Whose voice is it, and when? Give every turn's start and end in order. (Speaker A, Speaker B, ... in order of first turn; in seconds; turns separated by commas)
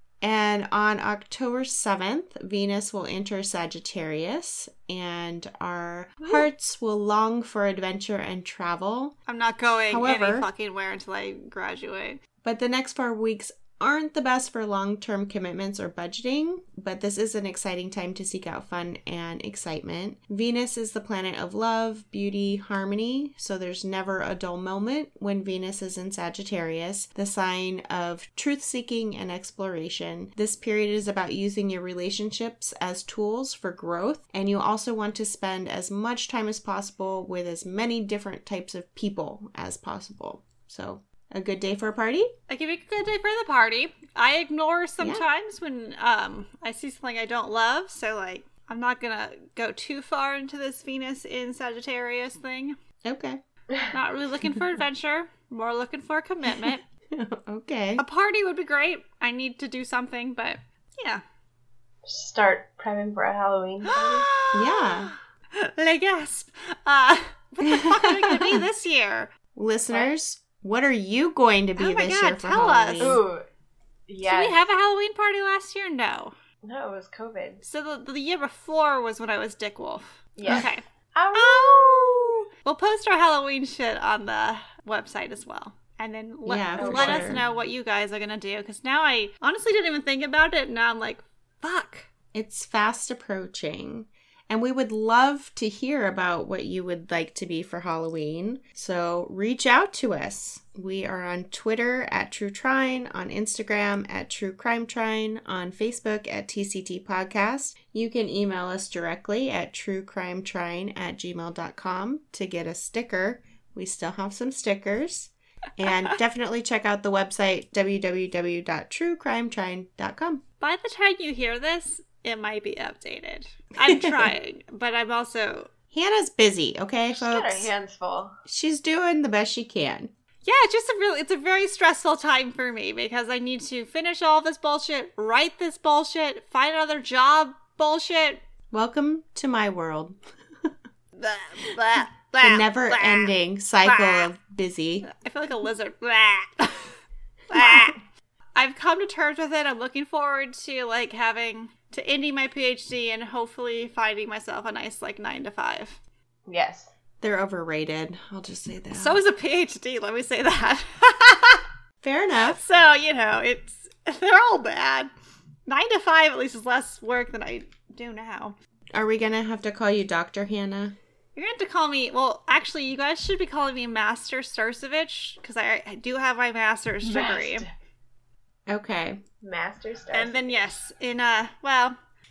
Speaker A: 0.2-9.1, Speaker B: 9.3-12.2, Speaker A: 9.9-10.5, Speaker A: 12.4-42.3, Speaker B: 42.5-52.8, Speaker A: 53.0-53.4, Speaker B: 53.9-56.8, Speaker A: 56.5-58.0, Speaker B: 58.0-61.2, Speaker C: 62.0-64.3, Speaker B: 63.9-69.3, Speaker A: 64.5-65.1, Speaker A: 67.6-68.6, Speaker A: 69.5-73.2, Speaker B: 71.8-73.2, Speaker C: 73.0-73.4, Speaker C: 74.1-74.6, Speaker B: 74.2-76.3, Speaker C: 76.6-77.6, Speaker B: 77.6-92.1, Speaker C: 80.4-82.4, Speaker A: 86.5-87.4, Speaker C: 86.8-87.3, Speaker A: 92.3-120.4, Speaker B: 120.6-125.7, Speaker A: 123.8-124.3, Speaker A: 125.9-127.7, Speaker C: 127.1-128.3, Speaker A: 128.5-130.1, Speaker B: 130.4-138.4, Speaker A: 138.7-140.7, Speaker B: 141.2-144.3, Speaker A: 142.4-145.1, Speaker B: 145.0-146.9, Speaker B: 147.5-148.0, Speaker B: 148.6-156.0, Speaker C: 156.5-156.9, Speaker A: 157.2-159.2, Speaker B: 158.9-161.6, Speaker A: 162.0-162.6, Speaker B: 162.4-165.1, Speaker B: 165.7-168.5, Speaker A: 168.9-171.0, Speaker B: 171.3-177.7, Speaker C: 177.0-177.7, Speaker A: 178.7-179.2, Speaker C: 179.4-180.7, Speaker B: 180.1-182.0